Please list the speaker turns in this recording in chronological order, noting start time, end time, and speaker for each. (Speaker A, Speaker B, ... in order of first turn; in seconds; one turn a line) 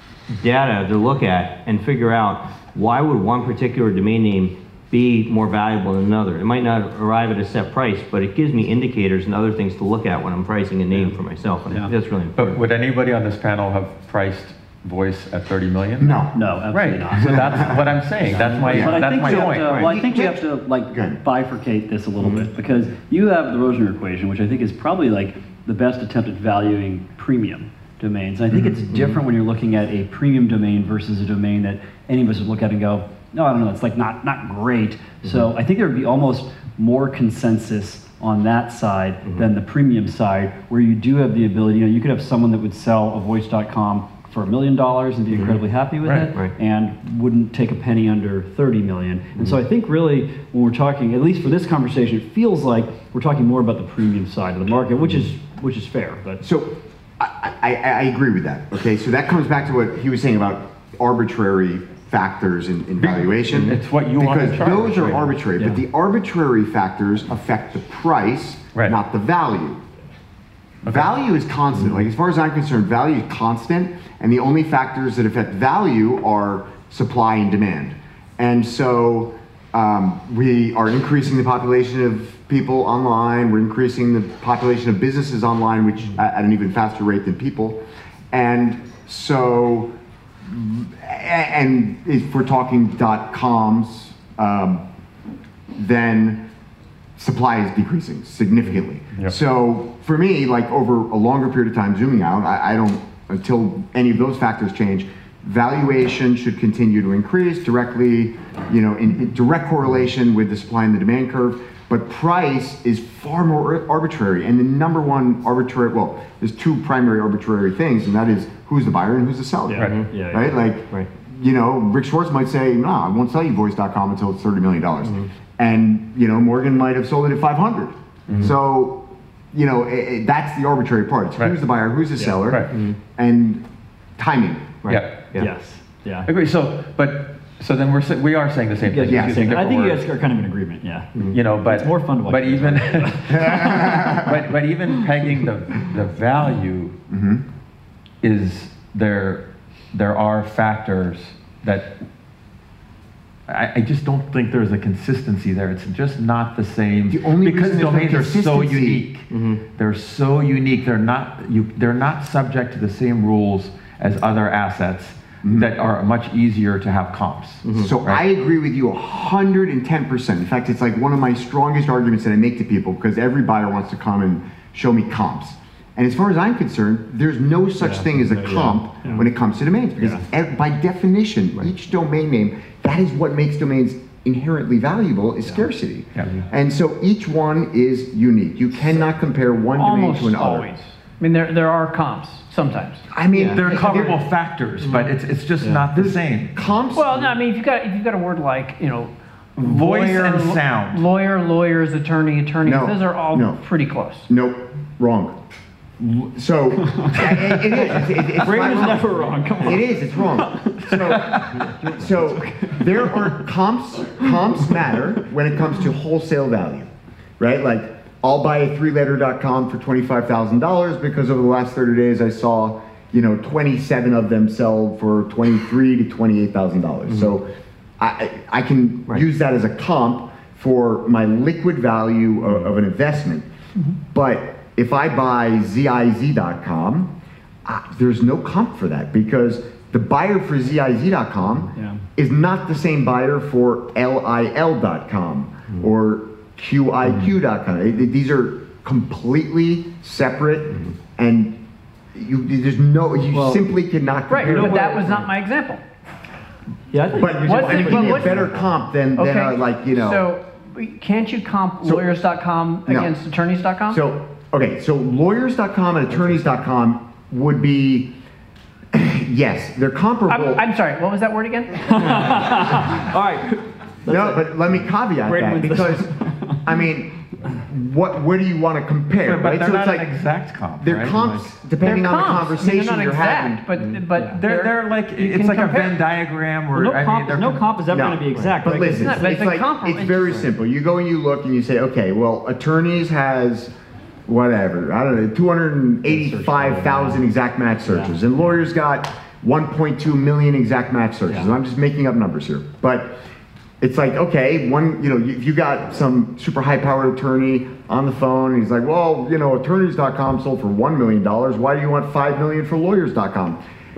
Speaker A: 0.4-12.6
Speaker B: 12.4-19.9
Speaker C: 16.0-16.3
Speaker D: 16.4-56.4
Speaker C: 17.2-17.8
Speaker C: 18.7-21.2
Speaker A: 22.2-22.4
Speaker A: 28.9-29.2
Speaker A: 45.3-45.6
Speaker B: 46.0-46.3
Speaker C: 56.4-69.8
Speaker B: 63.0-65.3
Speaker C: 70.9-87.8
Speaker C: 88.3-94.8
Speaker C: 95.7-96.5
Speaker C: 97.2-133.7
Speaker D: 119.7-120.5
Speaker A: 119.8-120.1
Speaker B: 132.5-132.7
Speaker A: 132.7-133.0
Speaker C: 134.2-134.8
Speaker A: 134.8-135.5
Speaker B: 134.9-135.2
Speaker D: 135.4-136.3
Speaker B: 136.3-140.1
Speaker D: 138.8-144.2
Speaker C: 139.1-139.5
Speaker B: 141.3-147.0
Speaker C: 143.3-144.3
Speaker C: 147.1-147.4
Speaker B: 148.2-152.0
Speaker B: 153.5-168.2
Speaker C: 157.1-159.1
Speaker A: 159.3-159.6
Speaker C: 165.4-165.7
Speaker A: 167.7-167.9
Speaker C: 167.8-190.7
Speaker D: 177.8-179.3
Speaker E: 189.8-193.1
Speaker C: 193.1-194.2
Speaker B: 193.4-196.5
Speaker A: 194.8-195.1
Speaker D: 195.6-195.9
Speaker C: 196.0-197.1
Speaker E: 196.9-204.3
Speaker B: 199.6-201.0
Speaker C: 202.6-203.6
Speaker C: 204.3-205.4
Speaker C: 206.0-233.5
Speaker D: 206.9-213.4
Speaker B: 210.9-211.7
Speaker D: 214.2-214.8
Speaker C: 234.1-237.1
Speaker C: 237.7-251.6
Speaker D: 241.8-242.0
Speaker D: 247.1-247.3
Speaker C: 252.1-255.2
Speaker D: 253.3-253.6
Speaker E: 254.3-255.8
Speaker D: 254.4-255.3
Speaker D: 256.9-258.7
Speaker C: 257.1-260.2
Speaker E: 257.5-258.5
Speaker E: 259.2-264.0
Speaker C: 262.9-263.1
Speaker C: 263.9-268.1
Speaker C: 268.9-270.7
Speaker E: 270.3-272.6
Speaker D: 271.9-274.5
Speaker C: 274.1-280.1
Speaker D: 275.2-276.6
Speaker B: 279.2-281.2
Speaker C: 280.8-283.6
Speaker E: 281.8-286.0
Speaker B: 284.4-287.9
Speaker D: 286.7-289.3
Speaker C: 287.9-293.7
Speaker E: 289.0-290.5
Speaker C: 294.3-303.2
Speaker D: 296.1-297.2
Speaker D: 297.9-298.2
Speaker C: 303.8-313.6